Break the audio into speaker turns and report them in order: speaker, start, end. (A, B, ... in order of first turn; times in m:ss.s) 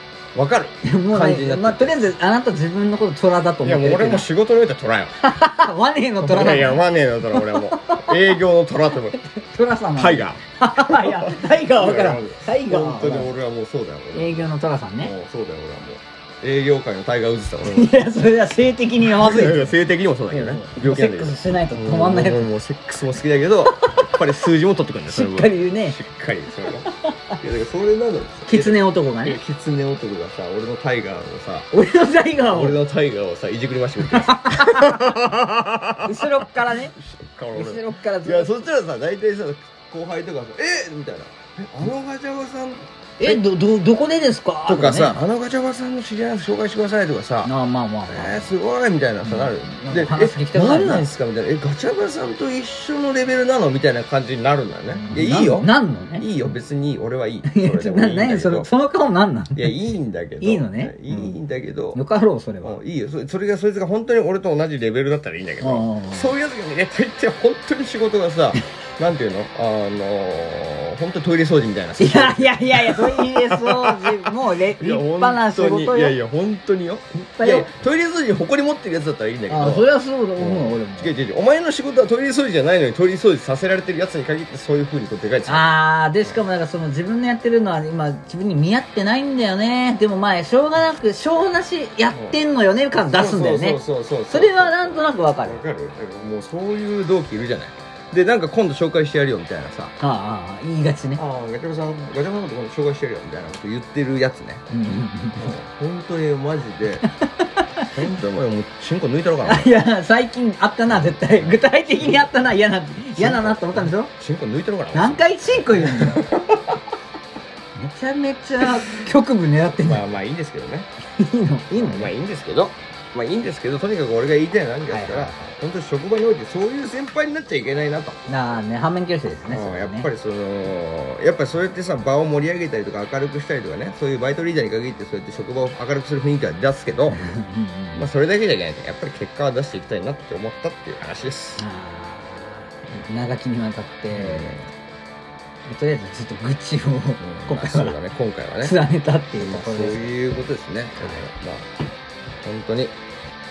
0:00.4-0:02.1 A
0:00.8-0:04.3 B
0:03.6-0:05.2 A
0:05.2-0:08.2 B
0:06.2-0:09.2 A
0:09.2-0:13.3 B
0:10.0-0:14.5 A
0:14.1-0:15.1 B
0:15.0-0:18.0 A
0:17.7-0:19.8 B
0:19.0-0:26.9 A
0:20.3-0:22.5 B
0:23.8-0:24.1 B
0:25.1-0:26.0 B
0:27.4-0:31.7 A
0:28.5-0:29.4 B
0:31.7-0:32.8 B
0:32.5-0:36.3 A
0:34.1-0:35.1 B
0:36.0-0:36.9 B
0:37.0-0:43.4 A
0:37.5-0:38.5 B
0:43.2-0:45.2 B
0:44.7-0:47.5 A
0:47.4-0:48.5 B
0:48.1-0:58.7 A
0:49.2-0:51.1 B
0:55.0-0:56.3 B
0:57.5-0:59.8 B
0:59.6-1:02.0 A
1:00.4-1:01.3 B
1:01.9-1:02.8 B
1:02.6-1:25.7 A
1:05.6-1:06.3 B
1:12.0-1:16.2 B
1:17.1-1:17.7 B
1:19.5-1:21.1 B
1:25.5-1:35.6 B
1:32.1-1:32.4 A
1:33.0-1:39.9 A
1:40.0-1:41.2 B
1:41.2-1:44.6 A
1:44.7-1:45.5 B
1:45.4-1:47.1 A
1:47.2-1:47.9 B
1:47.9-1:49.8 A
1:49.5-1:54.1 B
1:50.9-1:52.3 A
1:53.1-1:56.8 A
1:54.9-1:56.3 B
1:57.8-2:00.0 B
1:59.8-2:00.9 A
2:01.2-2:02.1 B
2:01.7-2:08.2 A
2:04.9-2:05.4 B
2:08.3-2:10.1 B
2:09.5-2:17.3 A
2:17.1-2:18.1 B
2:18.0-2:21.6 A
2:21.6-2:24.7 B
2:24.1-2:24.6 A
2:25.7-2:28.0 B
2:27.2-2:28.8 A
2:28.6-2:30.2 B
2:29.4-2:31.7 A
2:32.4-2:32.9 A